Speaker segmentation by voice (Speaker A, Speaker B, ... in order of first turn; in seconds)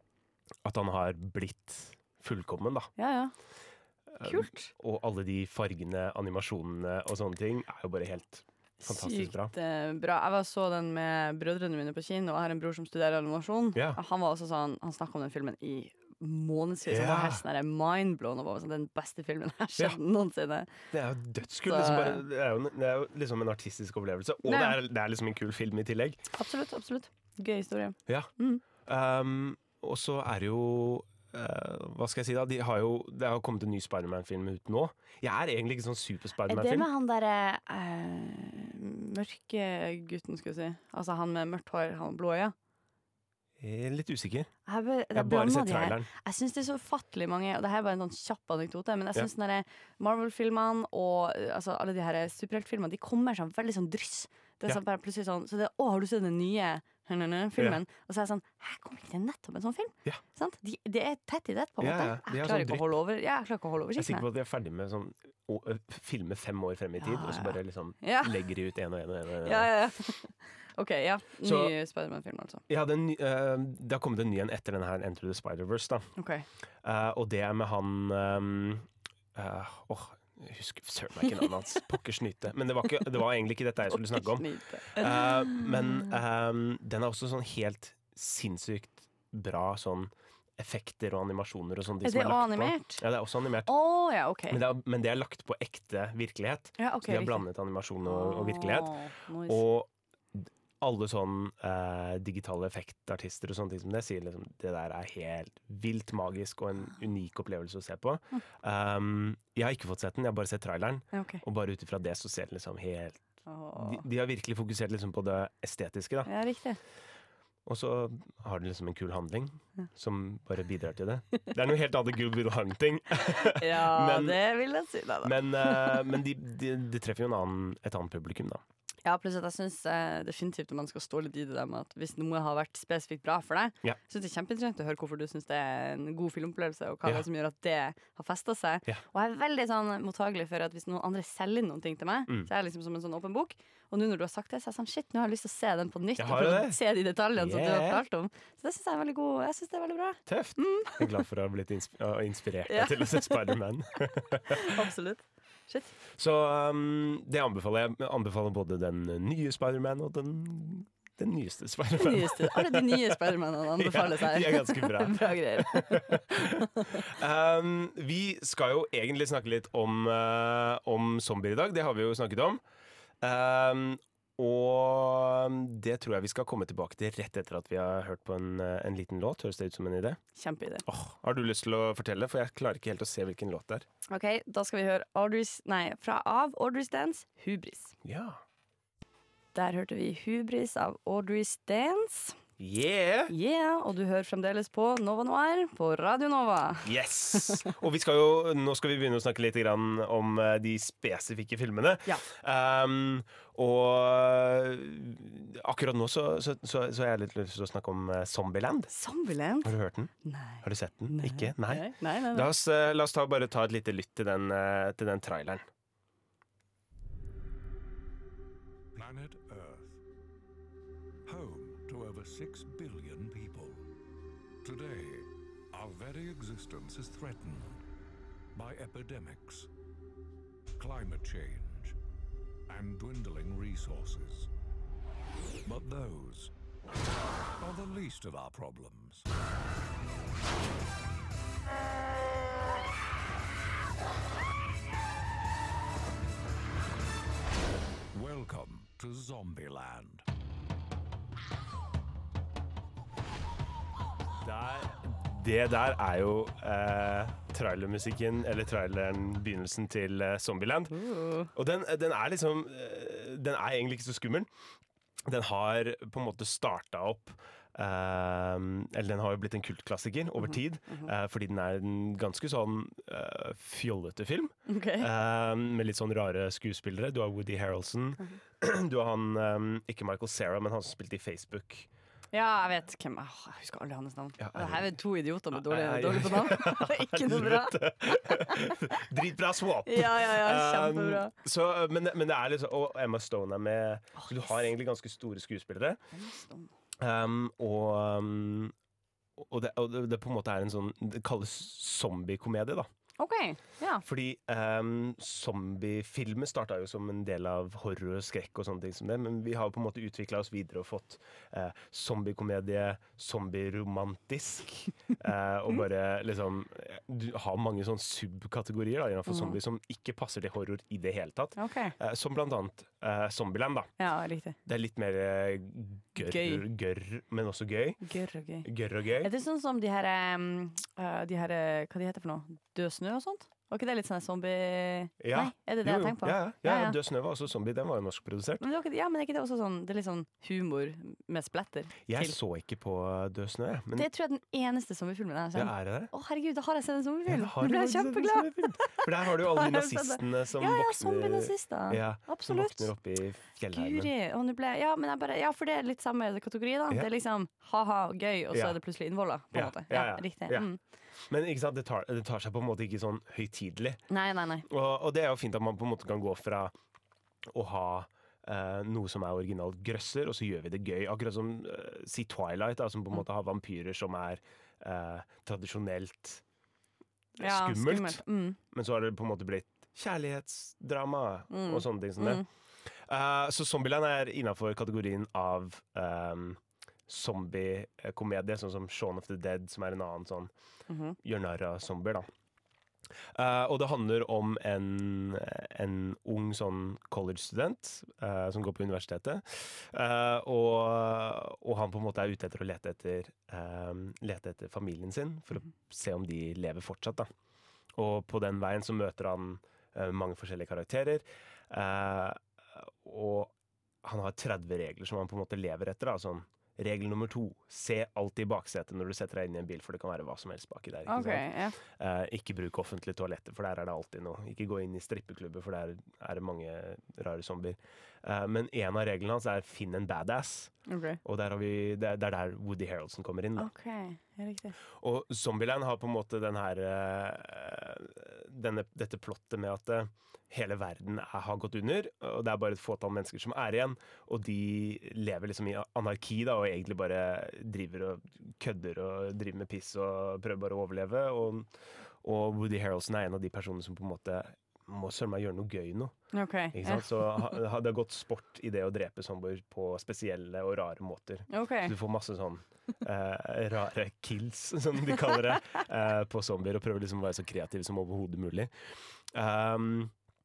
Speaker A: 0.6-2.9, 4.1-9.5, 13.7-14.0, 16.9-17.4, 20.9-26.2, 28.8-36.9, 43.6-44.5, 45.1-46.1, 61.8-62.9, 64.0-69.7, 71.4-71.7, 72.7-76.1, 76.8-93.7, 94.5-113.2, 113.8-116.3, 117.7-124.4, 125.2-128.6, 146.2-146.8, 147.3-148.0, 150.3-154.8, 156.2-172.6, 173.2-180.2, 180.8-183.8, 188.0-188.4, 192.6-193.3, 196.8-208.9, 209.6-215.7, 254.4-260.9, 261.5-264.5, 265.2-281.9, 284.4-284.9, 285.5-296.0, 297.0-298.7, 299.4-302.9, 304.0-323.9, 324.6-328.0, 328.6-329.3, 335.2-338.6, 342.1-344.1, 345.5-346.1, 347.2-354.1, 358.5-358.8, 359.5-360.7, 361.3-364.0, 364.7-366.7, 367.5-376.4, 377.4-390.5, 391.2-392.3, 393.3-407.3, 407.9-433.7, 434.9-451.7, 452.2-456.1, 456.7-468.7, 469.3-470.1
Speaker B: 3.0-3.3, 4.2-4.7, 8.8-20.7, 21.6-22.2, 24.4-24.8, 26.3-28.6, 36.5-42.5, 44.7-64.2, 67.0-68.4, 69.4-72.6, 76.2-76.5, 83.9-86.2, 92.0-93.0, 93.7-94.6, 96.8-97.4, 98.0-99.6, 111.1-111.4, 113.5-114.0, 116.2-116.8, 123.3-126.1, 129.0-151.2, 152.7-153.5, 154.5-155.9, 162.0-167.1, 180.3-180.8, 184.1-187.9, 189.5-192.4, 193.3-197.6, 208.9-212.5, 260.9-261.5, 270.4-271.1, 274.7-275.1, 282.3-288.9, 289.9-291.3, 294.1-294.6, 296.1-296.7, 303.2-304.0, 319.3-319.6, 321.6-321.9, 324.0-324.6, 326.2-326.6, 328.0-328.7, 329.2-337.0, 338.6-342.4, 343.9-352.9, 353.7-360.8, 364.1-364.7, 377.4-378.6, 381.5-382.4, 390.9-391.1, 421.1-421.8, 430.9-431.2, 433.6-434.8, 456.3-457.4, 461.5-461.9
Speaker C: 218.9-220.0, 221.2-223.8, 224.6-227.8, 228.5-229.7, 230.8-232.0, 232.7-234.5, 235.6-236.5, 237.6-239.3, 248.1-250.2